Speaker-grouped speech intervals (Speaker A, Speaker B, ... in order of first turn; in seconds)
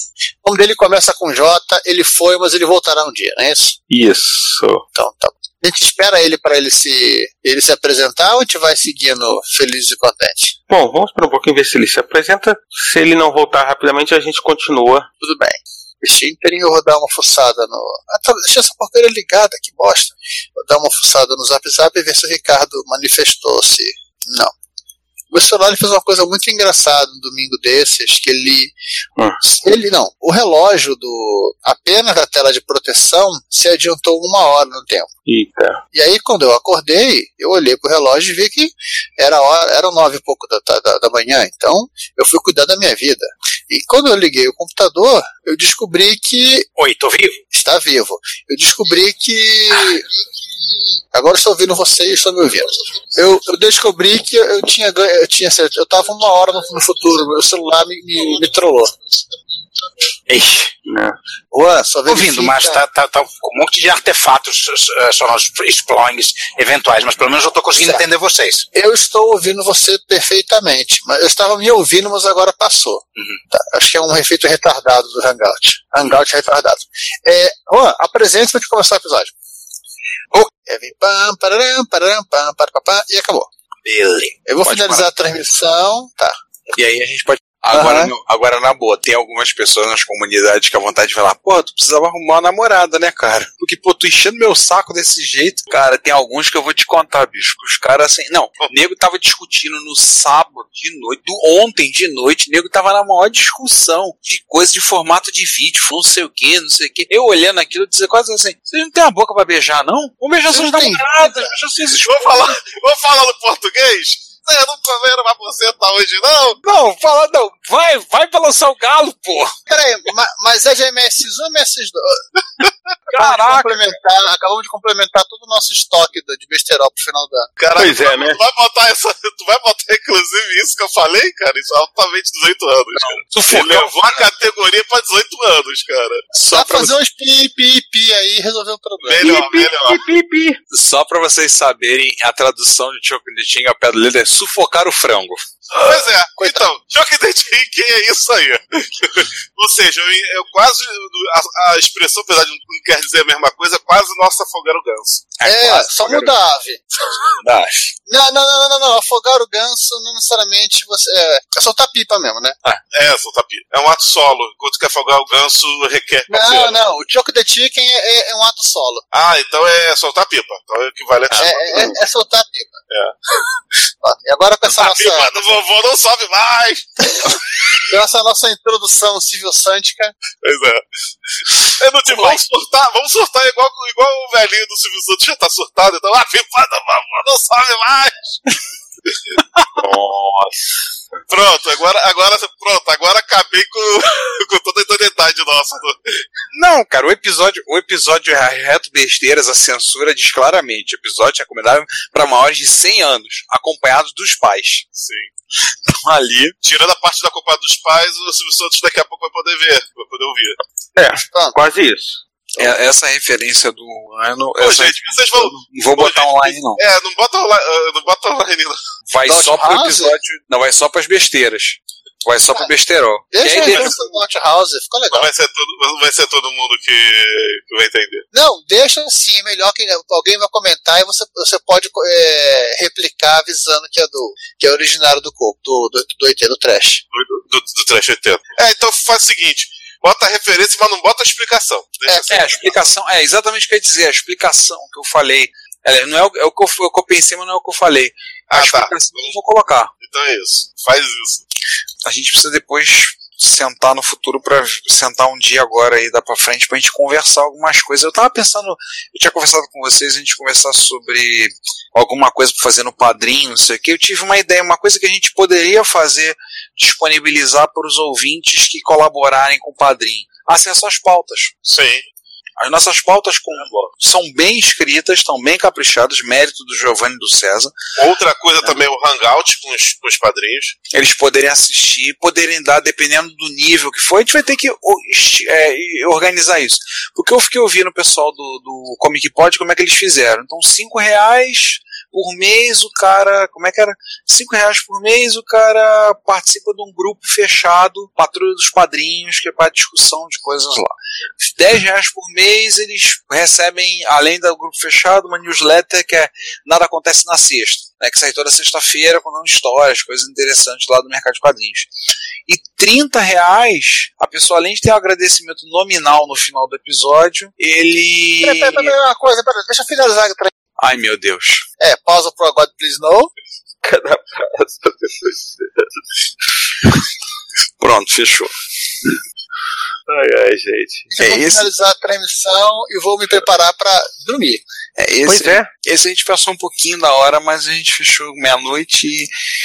Speaker A: 0.4-3.8, 5.0-10.6, 15.2-24.5, 25.3-28.7, 29.4-35.1, 35.9-46.7, 47.5-50.0, 51.1-59.0, 61.5-62.8, 68.7-79.3, 80.7-83.5, 84.5-86.4, 87.7-88.1, 110.5-111.5, 119.7-122.2, 123.1-127.5, 136.5-139.3, 146.4-146.6, 155.4-156.8, 158.1-162.6, 166.3-169.0, 171.4-172.8, 174.0-175.6, 177.9-180.2, 182.1-182.4, 211.2-211.6, 219.3-220.1, 223.3-225.3, 228.3-237.0, 318.4-320.5, 321.8-323.3, 331.1-334.6
Speaker B: 3.9-4.8, 10.7-15.1, 35.3-35.8, 60.9-61.1, 127.8-128.4, 139.2-140.6, 189.8-190.5, 211.0-212.2, 323.8-325.9, 330.1-331.1, 335.3-335.7
Speaker C: 46.8-47.4, 60.3-60.7, 62.1-68.7, 83.8-84.3
Speaker D: 84.6-85.1, 86.8-112.6, 116.6-119.5, 123.1-123.8, 133.0-134.2, 136.3-136.9, 140.7-145.4, 155.4-156.3, 157.2-157.8, 196.5-204.8, 206.0-206.6, 212.6-216.8, 219.1-223.9, 242.2-249.9, 252.1-271.5, 272.6-277.7, 280.9-300.9, 301.5-311.9, 312.5-319.0, 320.8-321.6, 327.8-328.5, 331.2-331.7, 335.0-339.3
Speaker E: 112.0-116.6, 127.6-136.2, 139.1-140.0, 145.8-155.3, 162.9-166.8, 169.1-172.0, 174.7-176.9, 180.4-180.8, 181.7-188.3, 191.3-196.0, 205.0-205.3, 206.6-210.6, 214.6-218.8, 223.6-223.9, 225.1-228.2, 237.1-242.8, 248.5-249.3, 250.0-251.4, 271.6-272.0, 278.0-280.8